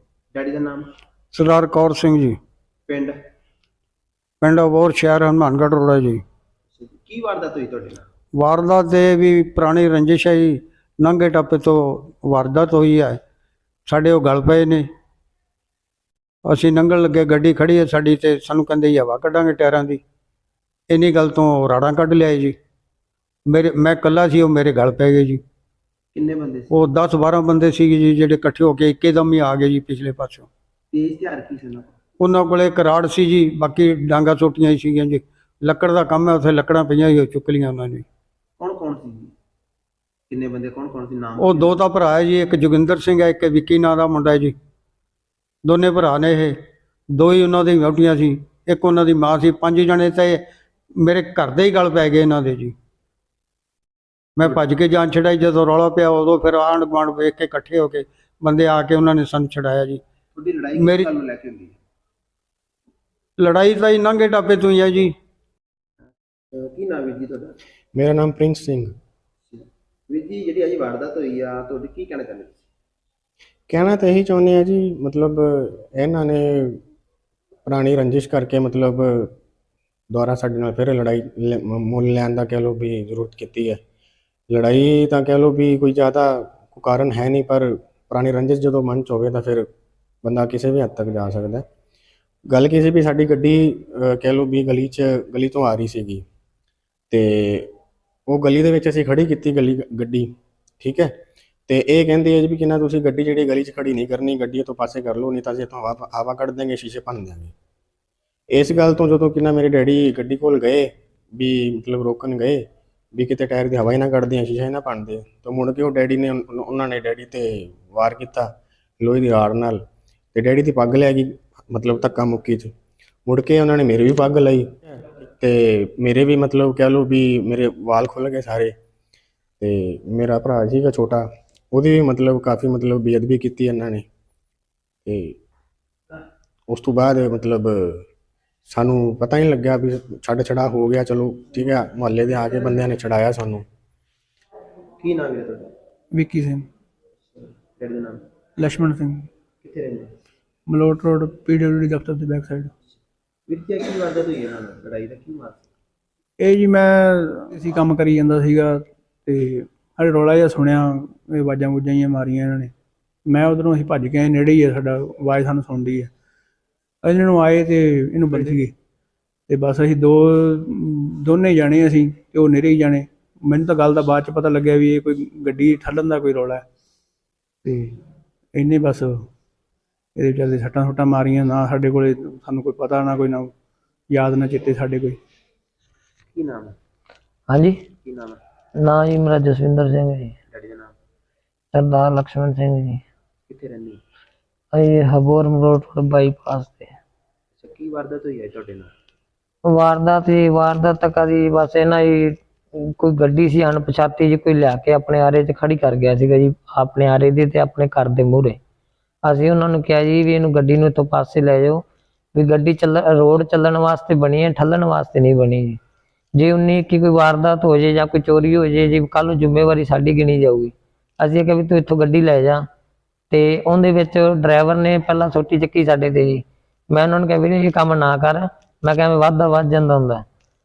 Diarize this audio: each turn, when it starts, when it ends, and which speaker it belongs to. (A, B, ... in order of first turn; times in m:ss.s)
0:00.3-0:00.8 A
0:01.3-0:02.4 B
0:02.9-0:03.2 A
0:04.4-0:06.2 B
0:06.8-0:08.0 A
0:08.4-0:13.2 B
0:13.9-0:14.9 B
0:16.5-0:20.0 B
0:20.9-0:22.6 B
0:23.5-0:25.4 B
0:26.1-0:26.9 A
0:26.7-0:30.5 B
0:30.9-0:31.9 A
0:32.2-0:38.0 B
0:38.6-0:39.3 A
0:40.3-0:41.8 A
0:41.4-0:44.6 B
0:45.6-0:46.6 B
0:47.2-0:50.4 B
0:51.0-0:52.7 B
0:54.4-1:00.0 B
1:00.3-1:01.8 A
1:00.8-1:01.1 B
1:03.4-1:05.2 B
1:06.5-1:07.6 A
1:08.0-1:09.0 C
1:09.5-1:12.7 A
1:13.7-1:16.8 C
1:17.6-1:19.3 C
1:20.1-1:23.8 C
1:24.5-1:29.7 C
1:30.2-1:31.6 C
1:32.5-1:36.2 C
1:37.1-1:37.7 C
1:38.3-1:40.3 C
1:40.8-1:41.1 C
1:41.7-1:47.5 C
1:48.5-1:52.6 C
1:53.2-1:58.5 C
1:59.0-1:59.8 C
2:00.3-2:02.7 C
2:03.3-2:04.8 C
2:05.4-2:08.7 C
2:09.6-2:14.0 C
2:15.1-2:15.4 C
2:16.7-2:18.0 C
2:18.7-2:23.6 C
2:25.0-2:25.7 A
2:26.1-2:26.7 D
2:27.3-2:28.2 A
2:28.6-2:29.3 D
2:29.6-2:30.2 A
2:30.7-2:32.7 D
2:33.5-2:35.7 A
2:36.4-2:42.7 D
2:43.3-2:46.1 D
2:47.0-2:48.7 D
2:49.5-2:56.6 D
2:57.7-2:58.0 D
2:58.6-2:59.3 D
3:00.2-3:03.5 D
3:04.1-3:05.2 D
3:06.3-3:06.8 A
3:07.5-3:07.8 E
3:08.0-3:08.4 A
3:08.8-3:10.4 E
3:10.5-3:10.9 A
3:11.7-3:13.0 E
3:13.5-3:14.0 A
3:14.7-3:17.0 E
3:17.6-3:18.9 A
3:19.7-3:28.6 E
3:29.2-3:31.8 E
3:32.4-3:35.8 E
3:36.4-3:42.6 E
3:43.3-3:50.2 E